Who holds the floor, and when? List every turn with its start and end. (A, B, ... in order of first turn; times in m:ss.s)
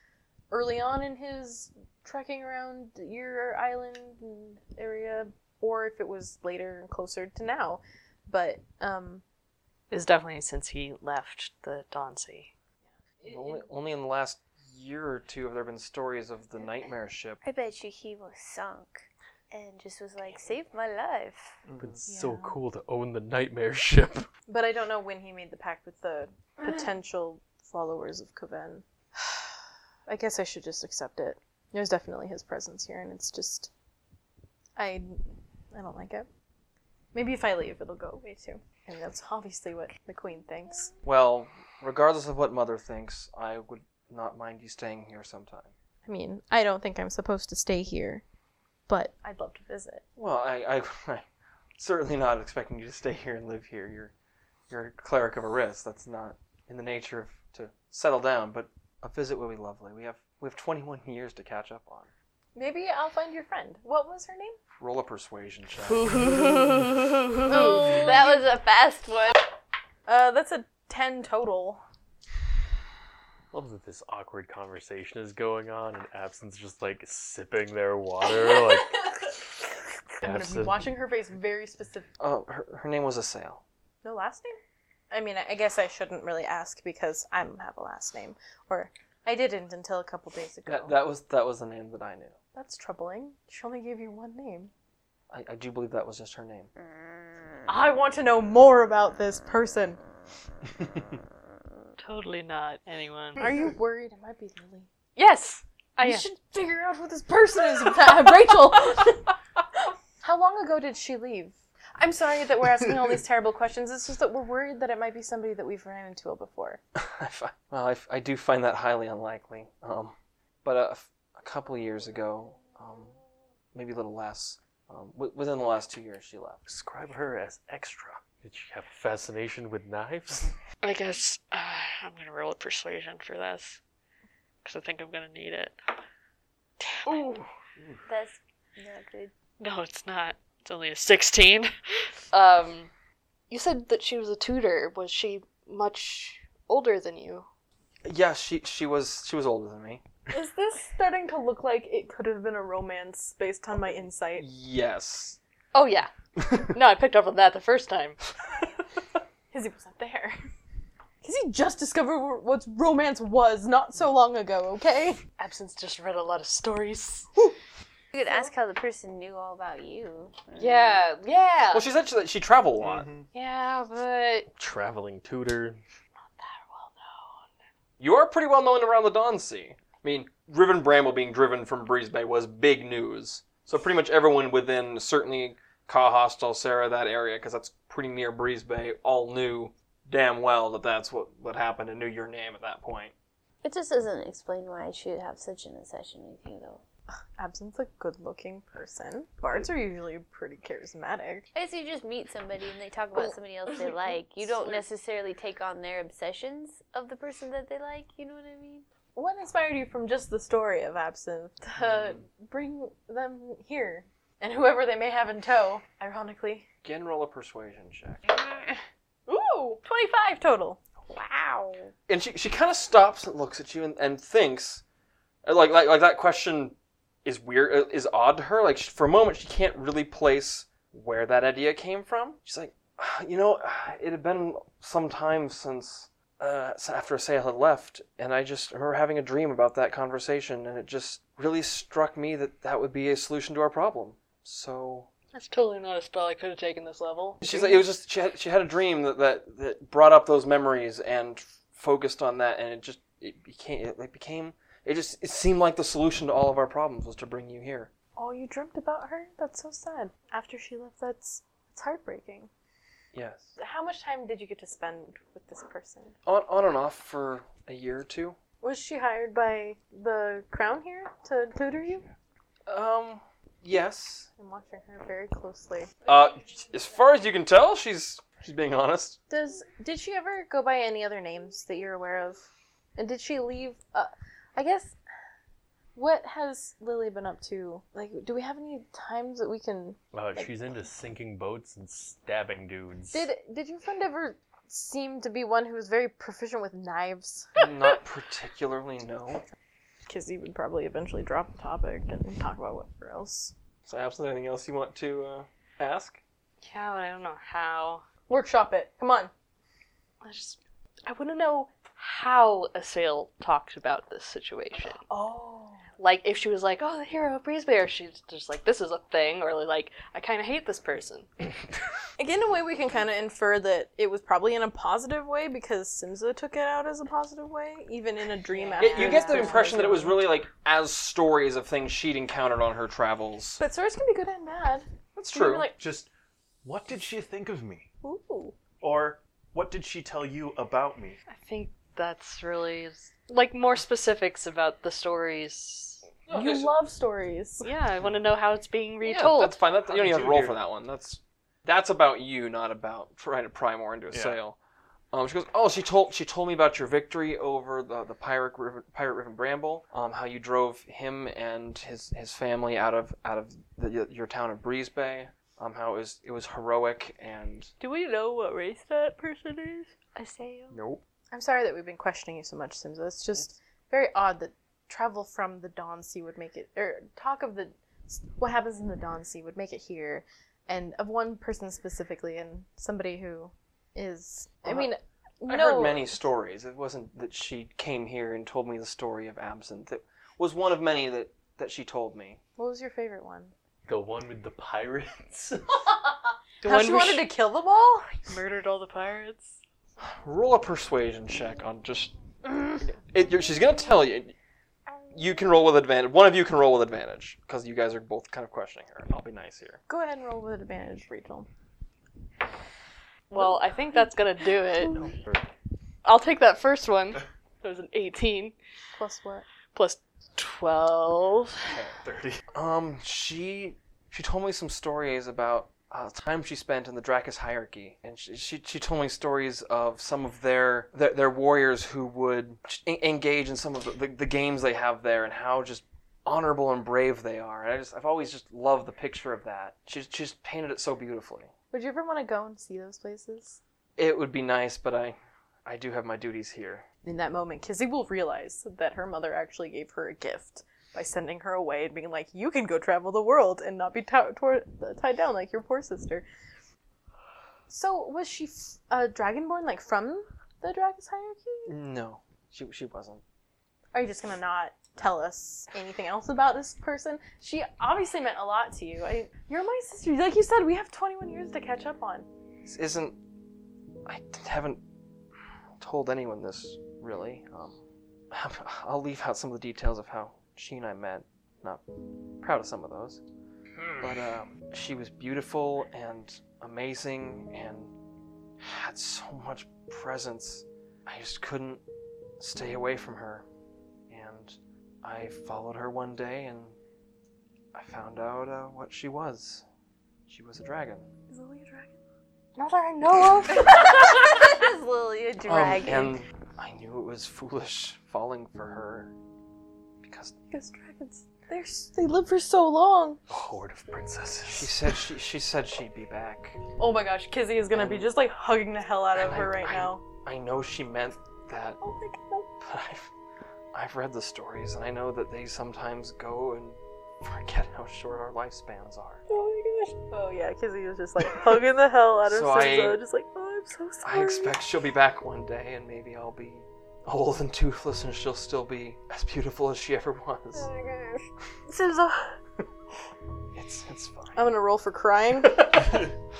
0:00.5-0:09.2 A
0:09.9-0:12.5 B
0:13.2-0:13.6 A
0:13.2-0:17.4 C
0:17.4-0:21.6 D
0:21.7-0:22.0 E
0:21.8-0:24.3 F
0:22.1-0:22.6 A
0:24.5-0:29.5 A
0:30.1-0:33.7 A
0:34.8-0:36.3 A
0:37.1-0:40.9 A
0:41.0-0:45.7 C
0:46.0-0:48.2 A
0:48.9-0:50.0 A
0:50.2-0:51.2 C
0:51.8-0:54.1 C
0:54.7-1:02.1 C
1:02.5-1:04.6 A
1:04.8-1:06.1 C
1:05.9-1:08.0 B
1:07.5-1:08.5 A
1:07.5-1:09.4 D
1:10.1-1:11.8 A
1:13.5-1:19.3 F
1:20.2-1:20.8 F
1:20.2-1:22.1 A
1:22.2-1:23.6 C
1:24.0-1:24.6 A
1:25.1-1:30.9 A
1:30.7-1:32.3 C
1:32.5-1:34.7 A
1:35.3-1:36.7 C
1:37.7-1:40.0 A
1:42.0-1:43.4 B
1:43.4-1:44.9 A
1:45.2-1:46.2 B
1:46.0-1:56.8 A
1:57.0-2:03.1 C
2:03.7-2:06.6 C
2:06.6-2:10.6 F
2:10.8-2:13.8 B
2:14.6-2:15.7 B
2:16.8-2:17.3 B
2:18.0-2:19.3 D
2:19.6-2:21.7 B
2:22.3-2:22.9 B
2:23.5-2:27.5 B
2:28.0-2:30.0 C
2:30.3-2:34.4 A
2:34.4-2:35.4 C
2:35.7-2:38.2 B
2:39.5-2:40.4 A
2:41.2-2:45.2 A
2:45.4-2:47.3 B
2:48.1-2:51.0 D
2:50.6-2:51.8 B
2:51.7-2:53.1 C
2:52.8-2:53.2 E
2:53.3-2:54.5 B
2:54.6-2:55.8 F
2:56.2-2:57.5 B
2:58.0-3:13.1 C
3:13.6-3:16.8 D
3:17.4-3:21.4 A
3:21.5-3:28.8 D
3:24.4-3:24.8 A
3:29.1-3:36.7 A
3:31.8-3:32.2 C
3:36.8-3:38.2 C
3:38.3-3:38.8 D
3:39.3-3:40.8 A
3:41.1-3:41.9 D
3:42.1-3:44.8 C
3:45.4-4:05.1 C
4:05.3-4:07.4 B
4:07.4-4:17.9 C
4:07.5-4:07.8 A
4:18.2-4:22.5 A
4:23.1-4:23.5 C
4:23.6-4:26.1 A
4:26.2-4:28.4 C
4:28.6-4:32.1 A
4:32.7-4:34.3 C
4:34.4-4:36.0 A
4:36.0-4:39.2 C
4:39.3-4:45.0 A
4:45.9-4:50.5 A
4:50.1-4:53.3 F
4:53.1-4:57.6 A
4:57.6-4:59.4 C
5:00.1-5:03.5 A
5:03.8-5:06.2 C
5:06.6-5:08.0 B
5:08.3-5:09.3 A
5:10.2-5:15.0 B
5:15.1-5:15.8 A
5:16.0-5:21.3 B
5:22.2-5:30.2 A
5:28.5-5:29.9 B
5:28.8-5:33.6 C
5:33.6-5:35.8 A
5:35.1-5:35.7 C
5:35.8-5:36.1 E
5:36.6-5:37.9 E
5:38.0-5:38.6 A
5:38.8-5:41.2 E
5:41.3-5:46.1 B
5:46.3-5:47.7 A
5:46.3-5:46.7 C
5:47.6-5:49.6 B
5:49.0-5:54.6 C
5:49.8-5:50.6 E
5:54.1-5:54.4 E
5:55.1-6:07.7 C
6:07.8-6:08.8 A
6:08.0-6:09.9 B
6:10.1-6:10.8 D
6:11.3-6:26.2 A
6:25.4-6:32.4 C
6:32.6-6:33.5 A
6:33.8-6:35.9 F
6:36.6-6:37.3 B
6:36.6-6:38.2 A
6:38.3-6:39.6 B
6:40.0-6:42.1 C
6:42.8-6:44.3 C
6:45.1-6:49.8 C
6:49.9-6:51.5 A
6:53.3-6:55.0 B
6:56.0-6:58.5 B
6:59.0-6:59.4 A
6:59.7-7:01.6 B
7:01.6-7:21.5 C
7:02.0-7:02.4 E
7:21.7-7:23.6 A
7:24.0-7:26.8 C
7:27.0-7:36.2 A
7:37.7-7:41.7 A
7:41.6-7:43.2 C
7:43.9-7:52.3 A
7:52.6-7:53.2 C
7:54.0-7:54.8 C
7:55.8-7:57.8 C
7:58.3-8:01.8 C
8:02.4-8:03.2 C
8:04.0-8:07.9 C
8:08.6-8:11.8 C
8:12.4-8:13.4 C
8:14.1-8:16.8 C
8:17.7-8:19.6 C
8:20.3-8:21.1 C
8:21.3-8:21.9 A
8:22.6-8:23.6 B
8:23.5-8:26.2 D
8:25.4-8:29.1 C
8:30.0-8:30.3 C
8:30.5-8:33.2 A
8:33.3-8:34.7 F
8:34.4-8:36.6 C
8:36.8-8:40.0 A
8:37.7-8:38.1 C
8:39.1-8:41.8 C
8:41.8-8:42.5 A
8:42.6-8:43.1 C
8:43.7-8:49.2 C
8:49.3-8:54.6 A
8:52.3-8:53.0 C
8:54.0-9:00.7 C
9:00.6-9:02.4 A
9:03.5-9:04.4 C
9:04.3-9:06.0 A
9:05.6-9:06.0 F